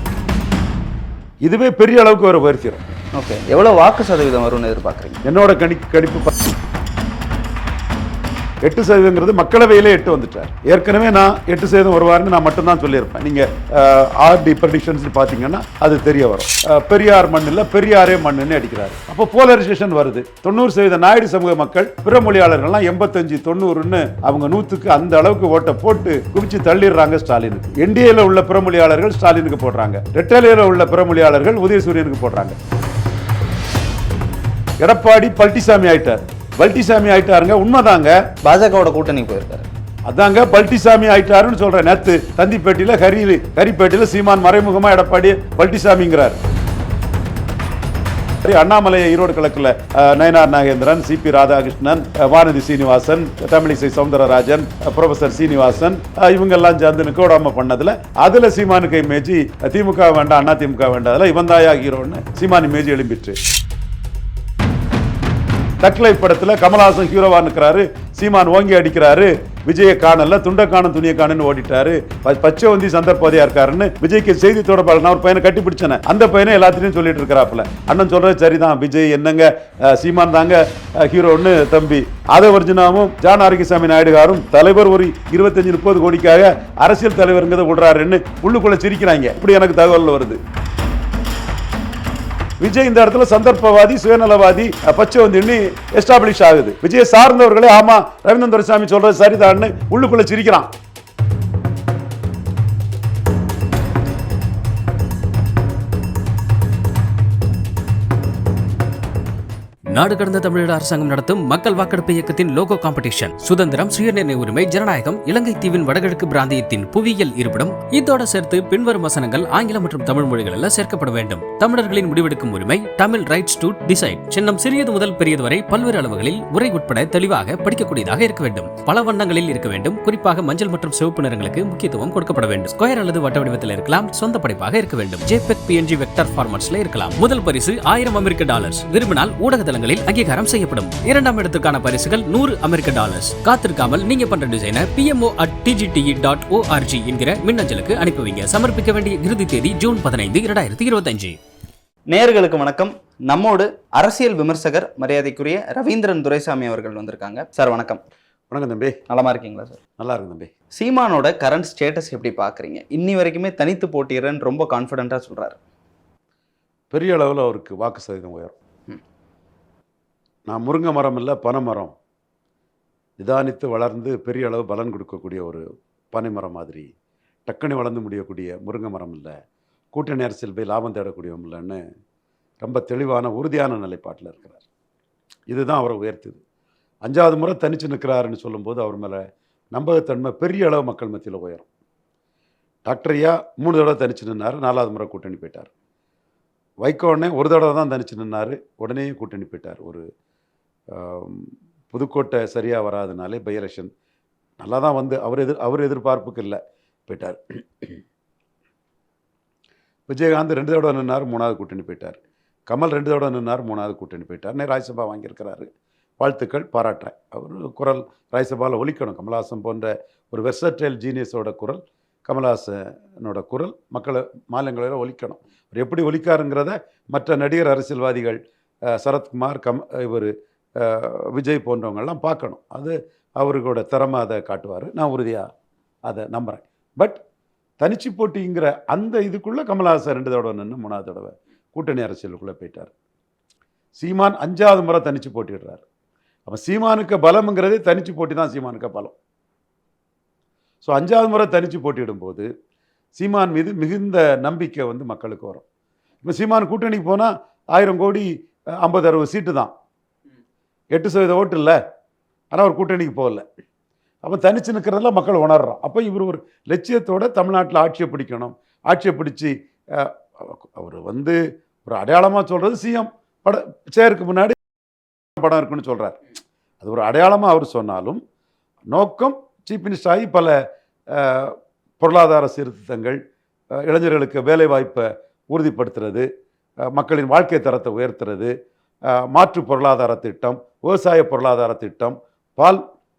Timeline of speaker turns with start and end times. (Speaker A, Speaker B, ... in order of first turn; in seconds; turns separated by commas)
Speaker A: 1.4-2.8, Speaker B: 3.2-5.2, Speaker A: 5.2-6.3, Speaker A: 8.6-32.5, Speaker A: 34.8-38.2, Speaker B: 38.4-39.7, Speaker A: 40.0-46.4, Speaker A: 48.4-63.4, Speaker A: 65.8-90.4, Speaker A: 92.6-100.7, Speaker C: 109.9-151.4, Speaker B: 152.1-158.0, Speaker A: 158.5-159.0, Speaker B: 159.1-159.8, Speaker A: 160.0-160.5, Speaker B: 160.7-165.6, Speaker A: 166.9-168.5, Speaker A: 170.5-171.9, Speaker A: 173.2-176.9, Speaker A: 177.5-179.3, Speaker A: 179.9-181.8, Speaker A: 182.6-184.6, Speaker A: 185.5-186.4, Speaker A: 187.0-191.7, Speaker A: 192.8-195.7, Speaker A: 196.8-200.0, Speaker A: 200.9-203.9, Speaker A: 204.6-208.0, Speaker A: 210.1-215.7, Speaker A: 216.2-228.4, Speaker A: 228.9-235.4, Speaker A: 236.1-237.2, Speaker A: 237.8-242.9, Speaker A: 244.0-245.8, Speaker A: 246.5-249.1, Speaker A: 250.8-252.5, Speaker A: 253.1-255.6, Speaker A: 256.2-258.3, Speaker A: 258.8-259.7, Speaker A: 260.9-261.8, Speaker A: 262.5-263.4, Speaker A: 264.2-274.6, Speaker A: 275.4-276.2, Speaker A: 276.8-278.2, Speaker A: 278.9-280.6, Speaker A: 281.1-283.2, Speaker A: 283.8-286.2, Speaker A: 286.9-288.5, Speaker A: 289.1-292.8